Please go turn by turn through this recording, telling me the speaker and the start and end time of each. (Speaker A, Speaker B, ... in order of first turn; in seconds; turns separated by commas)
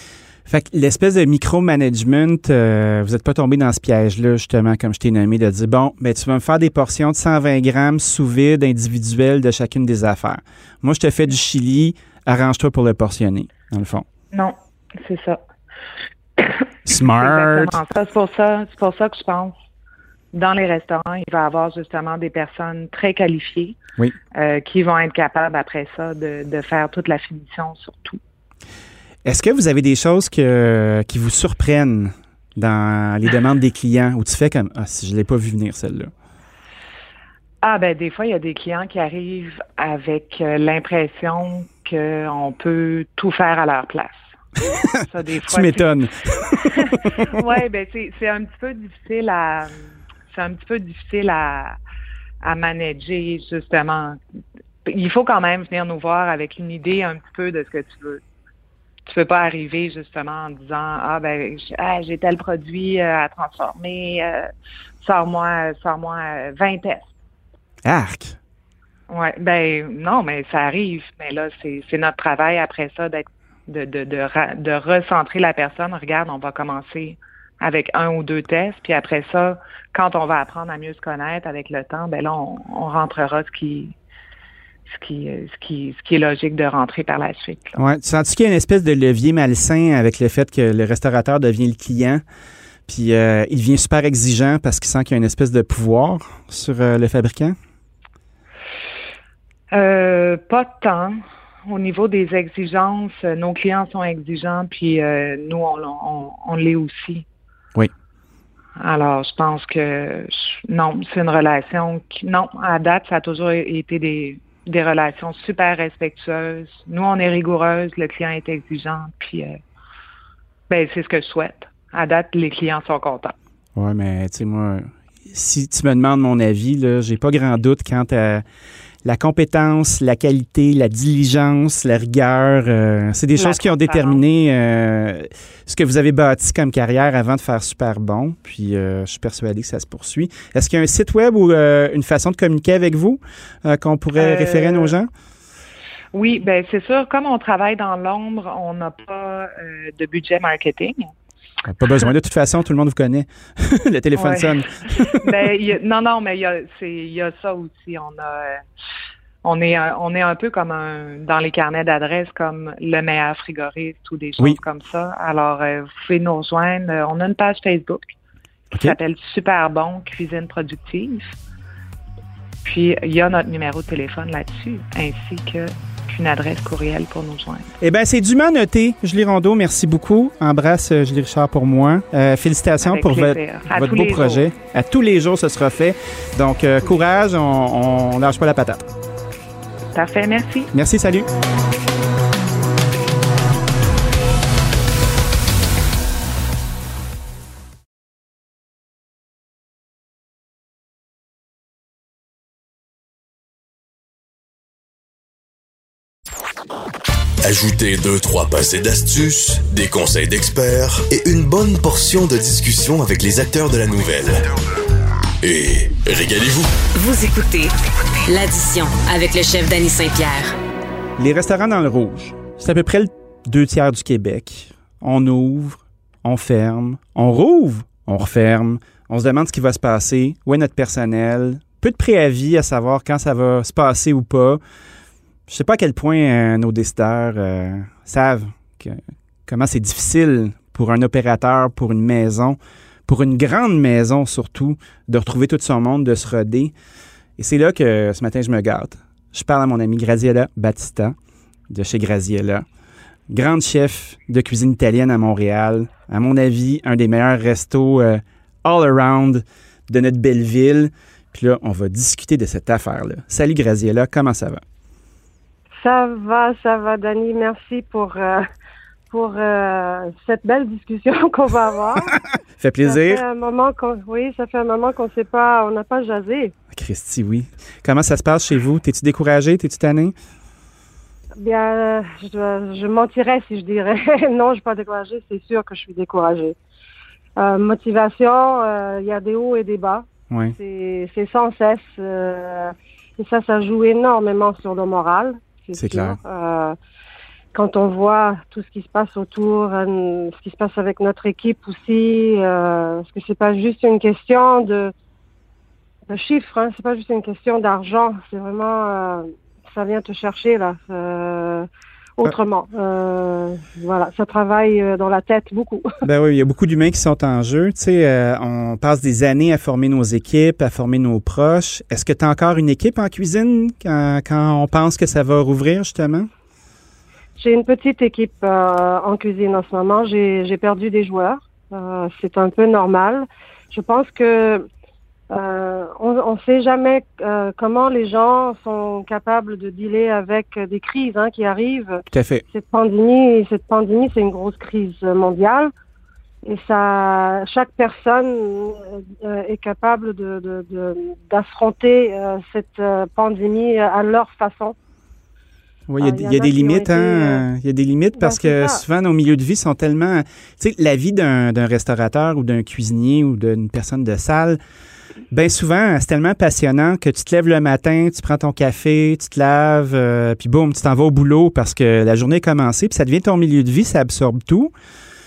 Speaker A: 0.5-14.1, Speaker B: 14.3-15.4, Speaker B: 16.4-19.6, Speaker A: 16.9-17.8, Speaker B: 20.3-23.8, Speaker B: 24.3-28.2, Speaker A: 29.2-36.1, Speaker B: 37.6-44.2, Speaker B: 45.0-45.9, Speaker A: 45.4-47.4, Speaker B: 46.6-49.8, Speaker B: 50.3-51.8, Speaker B: 52.4-54.2, Speaker B: 54.9-58.2, Speaker B: 59.1-67.1, Speaker A: 67.8-68.4, Speaker B: 69.1-84.0, Speaker B: 84.9-87.8, Speaker A: 87.8-92.2, Speaker A: 92.9-97.6, Speaker B: 99.7-107.2, Speaker B: 108.8-119.6, Speaker B: 120.7-123.3, Speaker A: 123.8-128.4, Speaker A: 129.1-145.1, Speaker B: 133.4-134.2, Speaker B: 144.2-144.9, Speaker B: 146.1-151.1, Speaker A: 151.7-155.3, Speaker B: 154.1-158.6, Speaker B: 159.4-168.1, Speaker B: 168.7-171.3, Speaker B: 172.6-177.7, Speaker A: 177.8-188.9, Speaker B: 182.8-184.4, Speaker B: 189.9-190.7, Speaker A: 190.7-191.3, Speaker C: 207.4-214.5, Speaker C: 215.4-216.7, Speaker D: 216.9-217.7, Speaker D: 218.3-220.5, Speaker A: 221.2-234.6, Speaker A: 235.5-246.7, Speaker A: 247.4-251.2, Speaker A: 251.7-252.6, Speaker A: 253.3-264.6, Speaker E: 265.8-268.4, Speaker E: 269.1-272.2, Speaker A: 272.6-273.2, Speaker E: 272.9-276.5, Speaker A: 276.7-280.1, Speaker E: 281.4-286.6, Speaker E: 287.4-290.1, Speaker A: 290.3-290.6, Speaker E: 290.6-296.8, Speaker A: 295.7-296.2, Speaker E: 297.5-304.9, Speaker E: 306.1-311.7, Speaker E: 312.2-315.9, Speaker A: 316.0-326.3, Speaker E: 327.4-334.7, Speaker E: 335.3-345.7, Speaker A: 342.1-342.4, Speaker E: 346.4-354.8, Speaker A: 355.9-364.6, Speaker E: 356.0-357.5, Speaker E: 358.2-358.8, Speaker A: 365.3-374.7